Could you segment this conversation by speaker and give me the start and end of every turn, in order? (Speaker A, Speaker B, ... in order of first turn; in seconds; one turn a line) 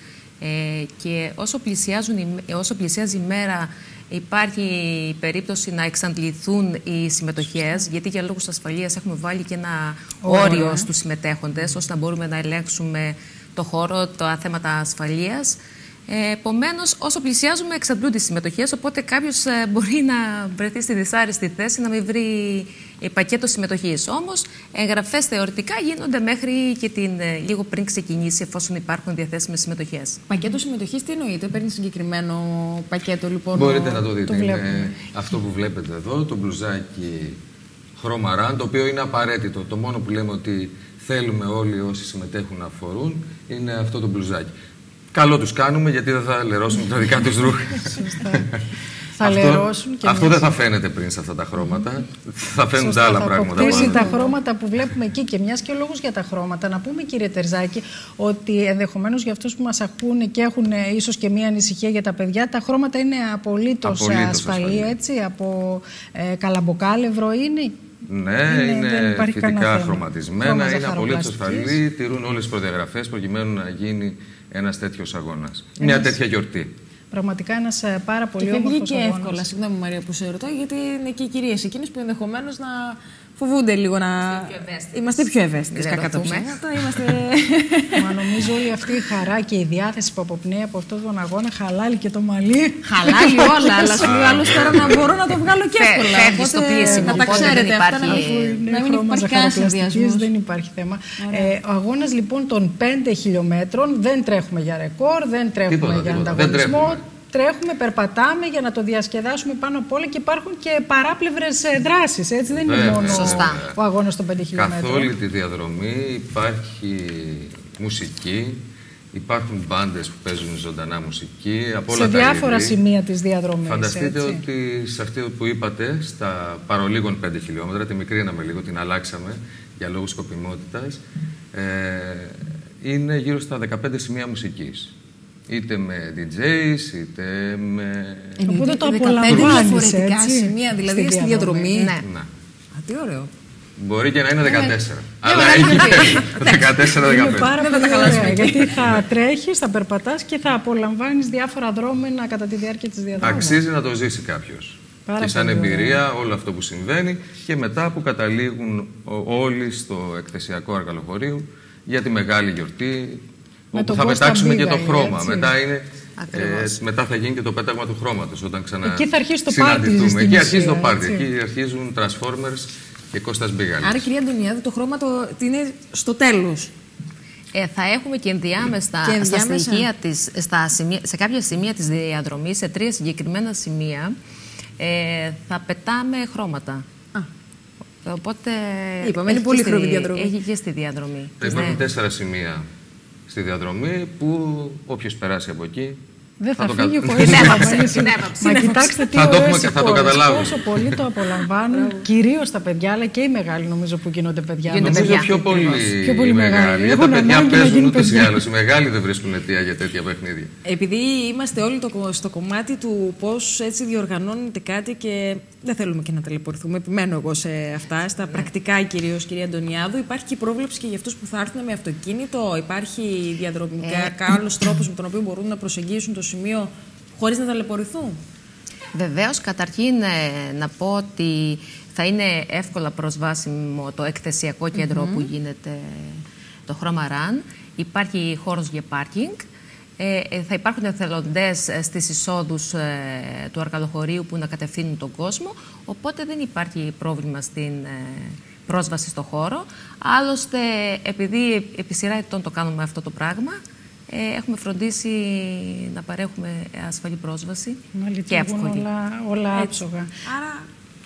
Speaker A: 0.4-30.2
Speaker B: 10.2-10.9
Speaker C: 30.3-34.0
Speaker D: 33.5-37.4
Speaker B: 34.3-34.9
Speaker D: 38.0-44.5
Speaker D: 45.1-48.6
Speaker B: 48.0-48.5
Speaker B: 49.2-50.4
Speaker D: 49.2-54.2
Speaker B: 52.8-67.8
Speaker C: 53.6-54.0
Speaker D: 63.8-64.9
Speaker D: 68.1-76.7
Speaker B: 68.5-71.8
Speaker B: 75.8-76.2
Speaker B: 77.1-79.4
Speaker C: 78.4-88.5
Speaker A: 84.2-86.6
Speaker B: 88.0-94.0
Speaker C: 92.8-100.3
Speaker D: 94.0-95.3
Speaker A: 95.8-98.6
Speaker B: 96.8-115.1
Speaker C: 101.2-101.5
Speaker D: 105.7-107.0
Speaker D: 112.5-113.8
Speaker A: 113.0-113.6
Speaker D: 114.5-118.6
Speaker D: 119.1-122.8
Speaker B: 121.9-124.4
Speaker D: 123.6-131.0
Speaker D: 131.5-134.9
Speaker D: 135.5-138.4
Speaker C: 138.4-141.9
Speaker B: 138.4-141.8
Speaker A: 141.7-142.1
Speaker D: 142.0-142.3
Speaker C: 142.7-143.3
Speaker D: 143.8-148.9
Speaker C: 144.5-148.8
Speaker B: 147.0-153.6
Speaker D: 153.2-174.1
Speaker B: 155.1-156.0
Speaker B: 163.7-165.5
Speaker A: 166.2-166.8
Speaker B: 168.8-171.3
Speaker C: 173.8-176.7
Speaker A: 177.5-184.1
Speaker C: 179.0-179.9
Speaker A: 184.8-186.8
Speaker A: 188.0-191.8
Speaker C: 189.0-190.3
Speaker D: 191.4-192.7
Speaker D: 193.3-196.0
Speaker B: 196.4-208.4
Speaker D: 196.6-198.1
Speaker A: 197.2-198.9
Speaker C: 198.4-199.2
Speaker D: 199.1-201.1
Speaker C: 201.7-202.0
Speaker A: 204.7-205.4
Speaker D: 204.8-210.5
Speaker C: 210.7-228.2
Speaker A: 223.8-224.2
Speaker A: 228.9-239.4
Speaker C: 234.8-235.3
Speaker A: 240.0-253.6
Speaker A: 254.1-258.9
Speaker B: 257.9-260.1
Speaker C: 259.5-260.7